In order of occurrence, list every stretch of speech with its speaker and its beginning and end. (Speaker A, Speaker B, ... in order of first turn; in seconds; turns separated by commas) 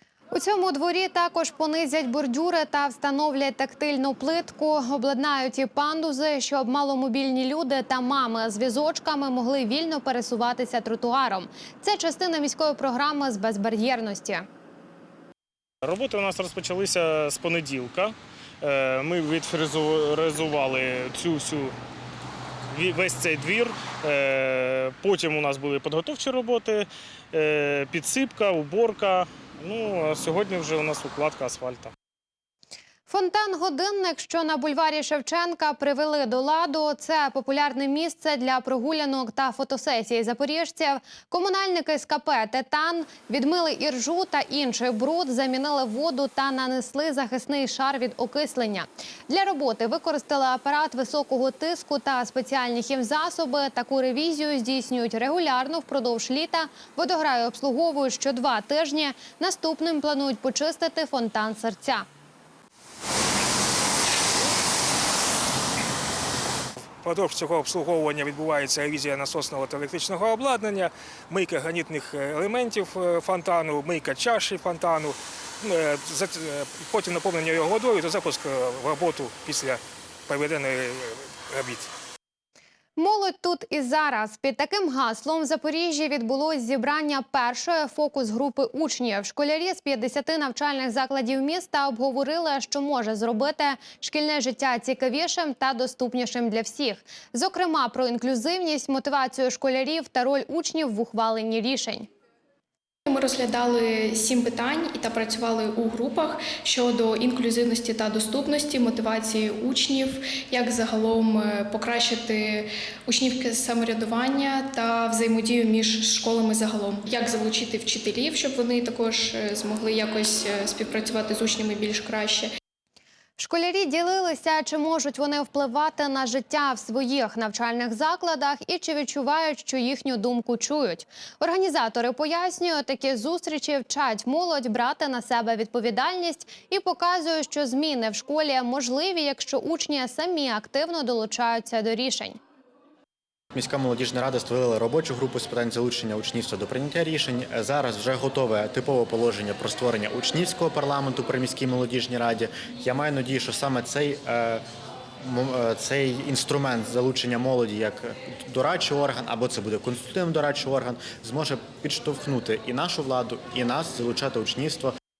Speaker A: 0.3-14.4, Speaker B: 15.8-21.7, Speaker B: 22.7-31.9, Speaker A: 33.1-62.0, Speaker C: 67.0-81.9, Speaker A: 83.0-102.1, Speaker D: 103.1-122.5, Speaker A: 123.4-142.4, Speaker E: 143.5-154.6, Speaker E: 155.2-164.9